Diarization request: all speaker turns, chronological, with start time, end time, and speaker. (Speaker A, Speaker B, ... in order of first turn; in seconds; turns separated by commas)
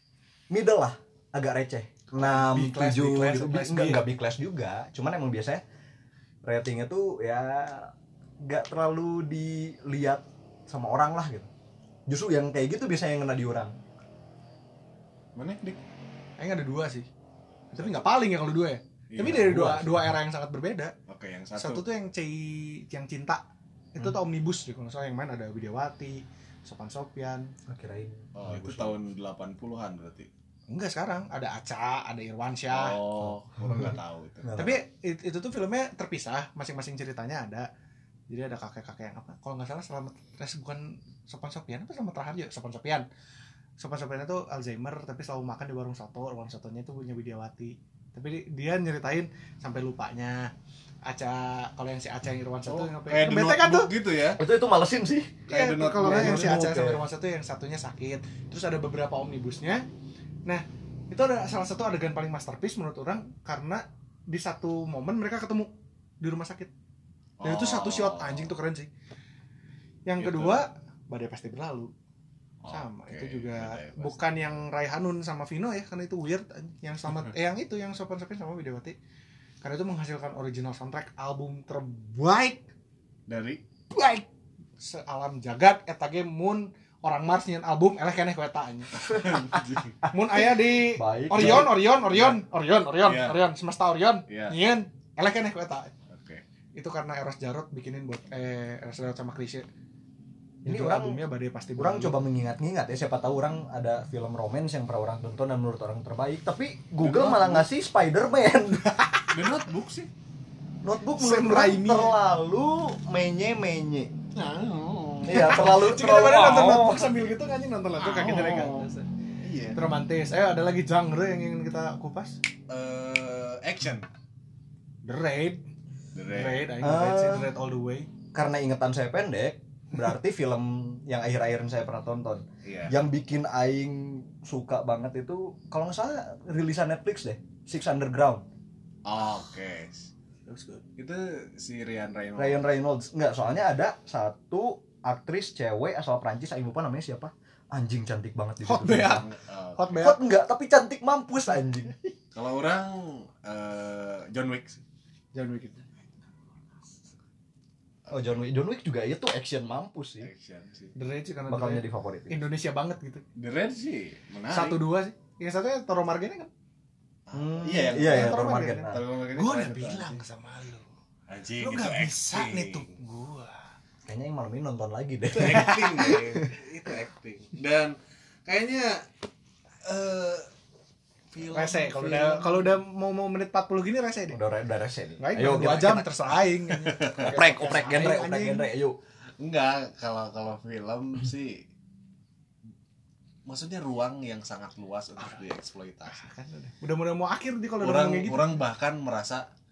Speaker A: 0.5-5.6, Speaker B: 2.1-4.0, Speaker A: 6.4-11.5, Speaker A: 12.1-13.8, Speaker C: 15.3-15.8, Speaker B: 16.4-17.1, Speaker B: 17.7-20.9, Speaker C: 17.8-18.0, Speaker C: 19.1-19.6, Speaker A: 19.2-20.1, Speaker C: 21.1-21.8, Speaker B: 21.6-23.4, Speaker B: 23.9-27.5, Speaker A: 27.7-29.0, Speaker C: 28.3-30.3, Speaker B: 30.7-33.0, Speaker C: 32.7-34.6, Speaker A: 33.2-34.8, Speaker B: 34.5-37.7, Speaker B: 38.3-43.0, Speaker B: 43.8-50.5, Speaker B: 51.0-53.9, Speaker C: 52.7-54.4, Speaker A: 54.4-55.4, Speaker C: 55.5-56.5, Speaker B: 55.5-59.9, Speaker A: 56.0-57.0, Speaker B: 60.5-66.7, Speaker C: 67.4-68.5, Speaker B: 67.4-68.9, Speaker B: 70.0-71.9, Speaker C: 70.2-70.6, Speaker C: 72.6-74.5, Speaker B: 72.7-79.0, Speaker B: 79.6-82.7, Speaker C: 83.3-83.6, Speaker B: 83.9-84.3, Speaker B: 84.8-89.3, Speaker C: 89.0-90.0, Speaker A: 90.0-91.7, Speaker B: 90.1-95.9, Speaker C: 91.3-92.4, Speaker C: 93.0-93.4, Speaker C: 94.3-94.6, Speaker C: 96.1-96.4, Speaker B: 96.7-99.7, Speaker B: 100.6-102.2, Speaker A: 100.6-101.2, Speaker A: 101.8-109.0, Speaker C: 107.0-107.7, Speaker B: 108.8-109.4, Speaker C: 109.3-110.1, Speaker A: 110.8-114.1, Speaker B: 111.1-112.2, Speaker C: 114.3-115.7, Speaker A: 115.2-117.1, Speaker B: 115.3-119.1, Speaker C: 118.0-118.9, Speaker C: 119.4-119.8, Speaker B: 119.7-122.4, Speaker C: 122.7-124.1, Speaker B: 125.0-125.6, Speaker C: 126.1-126.7, Speaker B: 126.3-128.1, Speaker A: 126.8-127.5, Speaker A: 128.3-138.4, Speaker C: 132.6-133.0, Speaker C: 139.0-140.1, Speaker B: 140.4-140.8, Speaker C: 141.0-142.7, Speaker A: 142.4-149.2, Speaker B: 148.6-150.2, Speaker C: 149.0-150.0, Speaker A: 150.0-152.1, Speaker C: 152.3-154.8, Speaker B: 155.3-155.8, Speaker C: 158.1-158.3, Speaker A: 158.1-160.3, Speaker C: 160.2-160.9, Speaker B: 160.9-163.2, Speaker A: 161.5-162.4, Speaker C: 163.4-164.8, Speaker B: 164.5-166.5, Speaker C: 167.3-170.2, Speaker A: 167.3-169.0, Speaker B: 167.9-170.8, Speaker C: 171.3-172.9, Speaker B: 171.6-173.7, Speaker A: 174.1-176.5, Speaker C: 175.3-179.0, Speaker C: 179.8-180.5, Speaker C: 181.3-181.9, Speaker B: 181.5-184.4, Speaker A: 181.8-182.7, Speaker A: 184.3-186.1, Speaker B: 185.2-188.7, Speaker C: 186.7-187.4, Speaker A: 187.2-189.0, Speaker C: 189.4-191.6, Speaker C: 193.4-196.2, Speaker B: 195.2-195.4, Speaker B: 196.1-198.6, Speaker C: 197.8-199.4